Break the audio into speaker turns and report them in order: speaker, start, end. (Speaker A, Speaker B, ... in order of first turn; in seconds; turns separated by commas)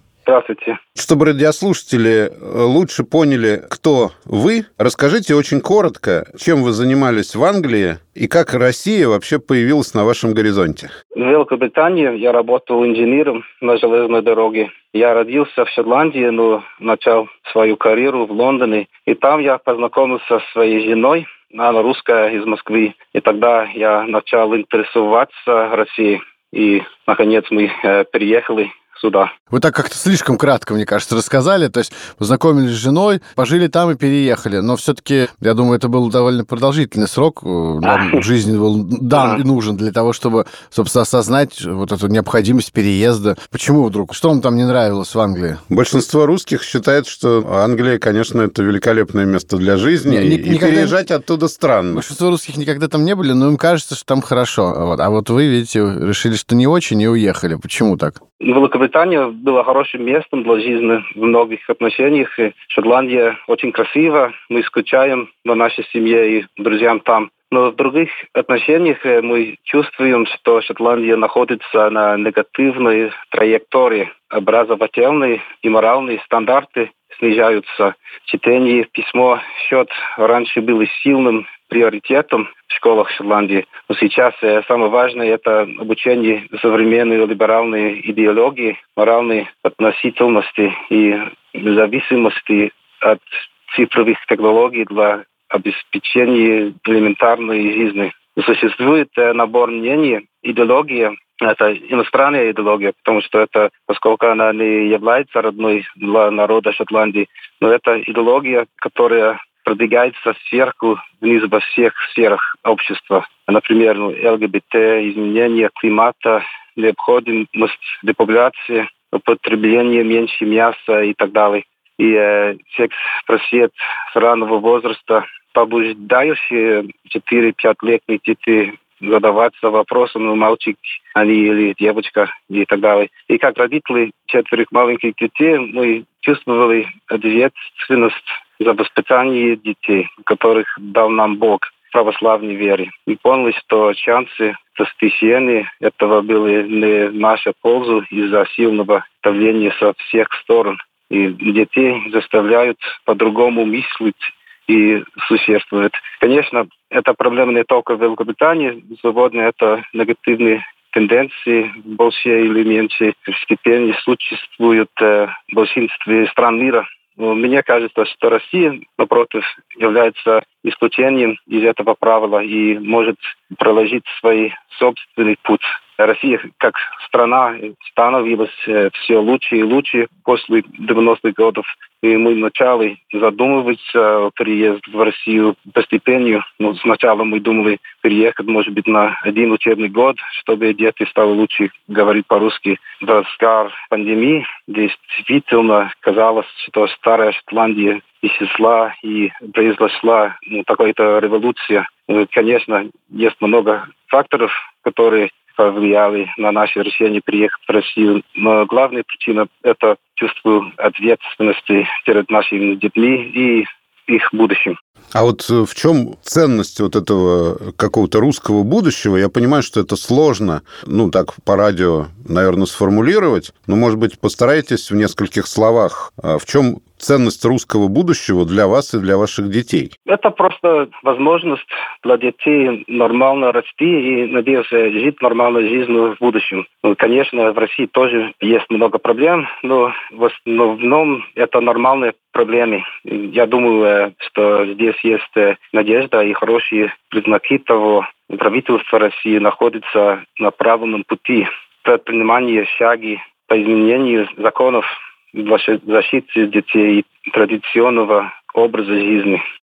Speaker A: 0.3-0.8, Speaker B: 1.0-10.9, Speaker A: 11.2-29.3, Speaker C: 29.5-45.6, Speaker A: 37.8-38.2, Speaker B: 45.7-52.1, Speaker C: 50.1-51.0, Speaker C: 51.9-58.2, Speaker A: 58.4-214.8, Speaker B: 215.1-229.9, Speaker A: 230.1-259.4